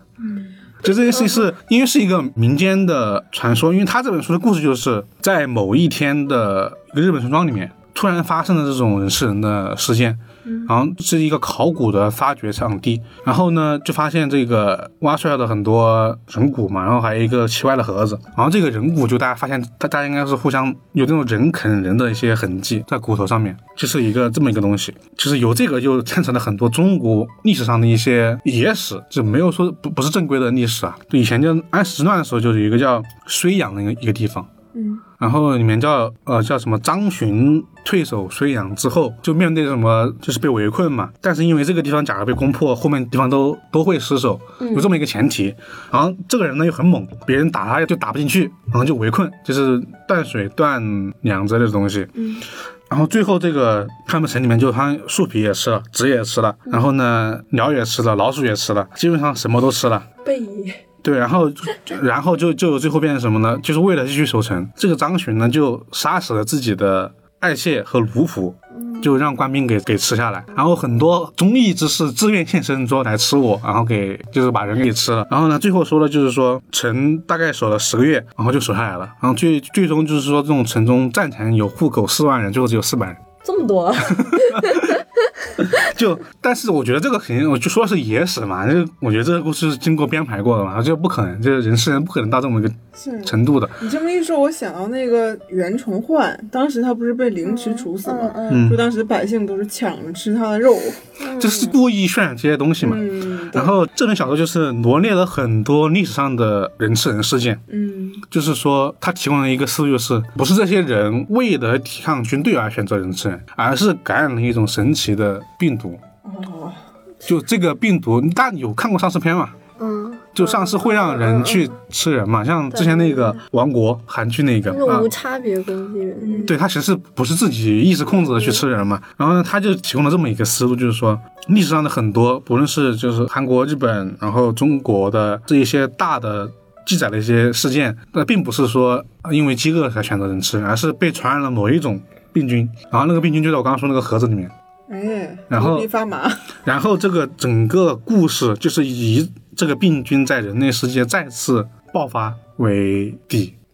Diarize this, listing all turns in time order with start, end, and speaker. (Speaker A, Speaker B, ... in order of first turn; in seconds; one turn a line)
Speaker A: 0.2-0.6
Speaker B: 0.8-34.5
Speaker A: 34.7-35.0
Speaker B: 35.2-52.1
Speaker C: 44.6-44.9
Speaker C: 52.2-52.4
Speaker B: 52.9-60.1
Speaker C: 60.2-60.8
Speaker B: 61.0-83.2
Speaker C: 68.7-69.2
Speaker C: 83.4-85.7
Speaker B: 84.0-85.0
Speaker B: 85.6-93.8
Speaker A: 92.9-101.2
Speaker C: 97.4-98.7
Speaker B: 98.5-98.8
Speaker C: 101.2-101.7
Speaker B: 101.4-107.6
Speaker A: 102.8-103.8
Speaker A: 107.7-108.2
Speaker B: 108.3-116.0
Speaker A: 116.2-116.8
Speaker B: 117.2-119.6
Speaker C: 119.8-121.7
Speaker B: 120.3-125.1
Speaker C: 122.7-123.4
Speaker C: 124.7-126.5
Speaker A: 126.2-126.5
Speaker B: 126.4-144.5
Speaker C: 128.3-128.6
Speaker A: 144.9-146.5
Speaker B: 145.5-145.9
Speaker B: 146.6-153.5